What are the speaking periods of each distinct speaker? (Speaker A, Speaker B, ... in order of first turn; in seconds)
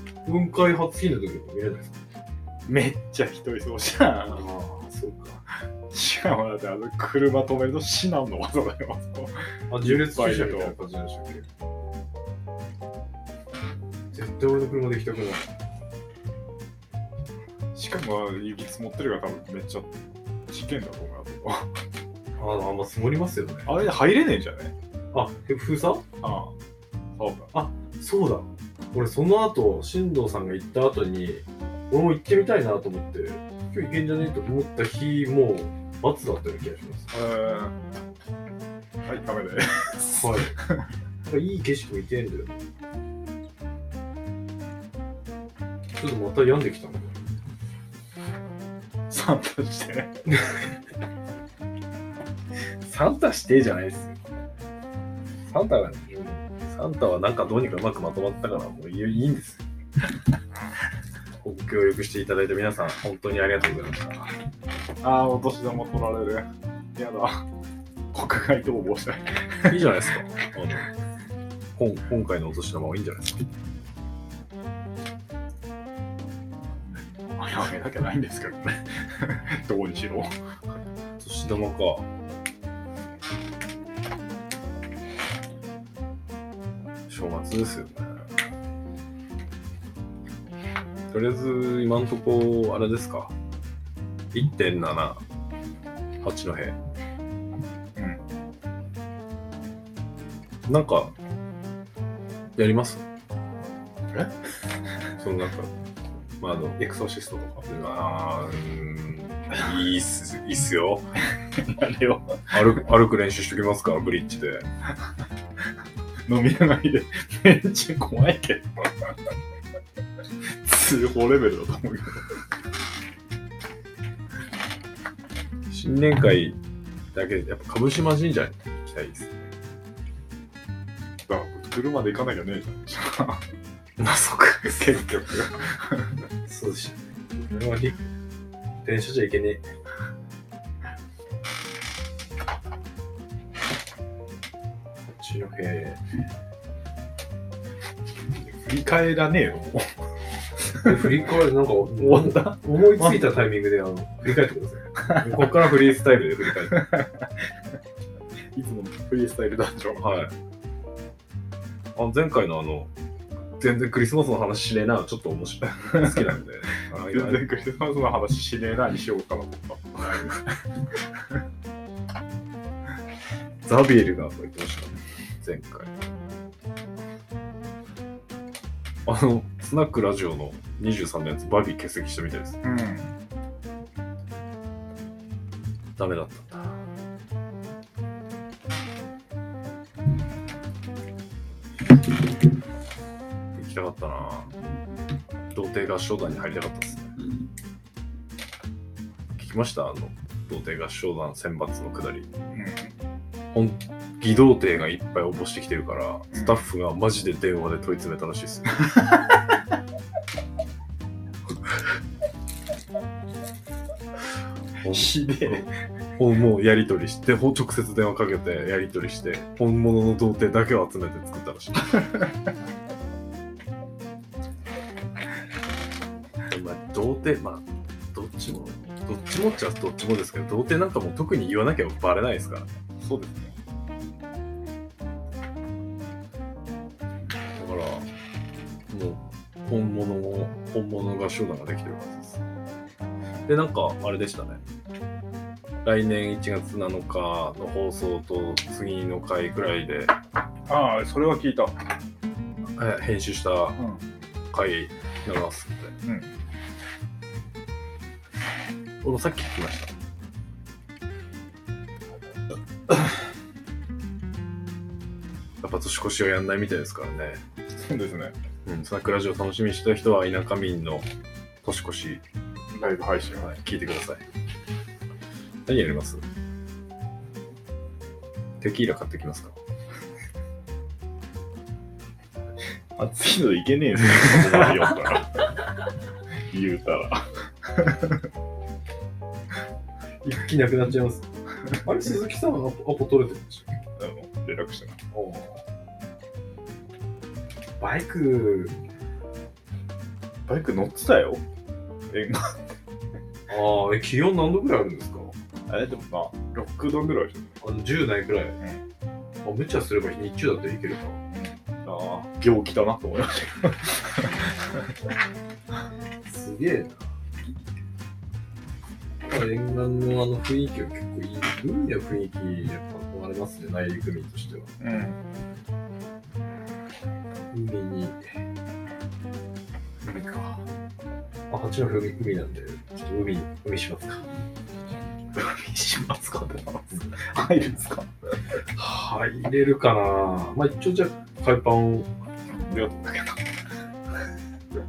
Speaker A: 0.2-2.0, 4.2-5.4, 9.7-11.5, 14.1-15.5, 22.4-23.7, 25.1-26.0, 27.5-37.1, 40.1-40.5, 41.2-42.6, 46.0-47.1, 52.8-54.2, 55.5-59.6, 61.4-64.3, 69.7-70.9, 71.8-73.5, 81.2-82.1, 87.1-88.2, 91.1-93.3, 94.3-95.2, 96.2-96.8, 100.7-101.1, 102.6-103.0, 105.2-105.7, 106.4-106.8, 107.7-111.1, 112.5-114.7, 125.7-126.6, 127.1-129.5, 134.0-134.9, 136.5-138.0, 138.8-139.6, 145.1-146.0, 150.8-156.9, 160.0-160.3, 162.0-162.9, 163.6-167.4, 173.7-176.0, 179.1-182.6, 186.0-186.8, 193.6-194.5, 195.5-197.1, 199.4-202.3, 203.5-209.1, 214.8-222.2, 226.5-232.7, 237.6-238.1, 238.9-242.4, 243.5-244.6, 245.8-250.1, 252.8-253.8, 254.5-256.0, 259.0-259.9, 265.6-267.4, 268.6-271.1, 271.6-272.2, 273.4-274.2, 275.7-276.2, 278.6-279.6, 284.2-284.9, 290.2-293.8, 295.1-295.6, 297.8-298.8, 303.5-305.3, 307.6-308.6, 309.4-311.2, 316.2-317.1, 319.3-324.7, 327.5-328.2, 330.0-330.6, 331.5-334.2, 338.8-342.1
Speaker B: 2.7-4.5, 5.9-10.8, 17.7-19.9, 20.5-21.7, 23.7-24.7, 26.2-26.5, 27.2-27.5, 37.1-37.8, 39.0-40.9, 49.1-50.1, 65.0-67.4, 68.1-69.8, 76.9-80.3, 98.0-98.2, 106.8-107.7, 111.4-112.6, 116.3-119.1, 120.6-122.4, 131.3-133.4, 134.6-136.2, 148.6-150.0, 150.7-151.2, 152.0-153.4, 155.1-155.5, 156.6-157.3, 158.5-160.2, 165.8-166.3, 167.0-171.4, 182.6-183.1, 202.5-202.9, 206.3-206.6, 214.9-215.7, 233.0-233.6, 250.7-251.8, 256.1-256.3, 267.7-268.4, 272.7-273.5, 283.0-285.5, 286.5-288.3, 294.0-295.0, 300.5-301.4, 302.1-302.6, 305.7-307.6, 311.3-314.9, 324.8-325.2, 335.3-338.1, 342.5-343.5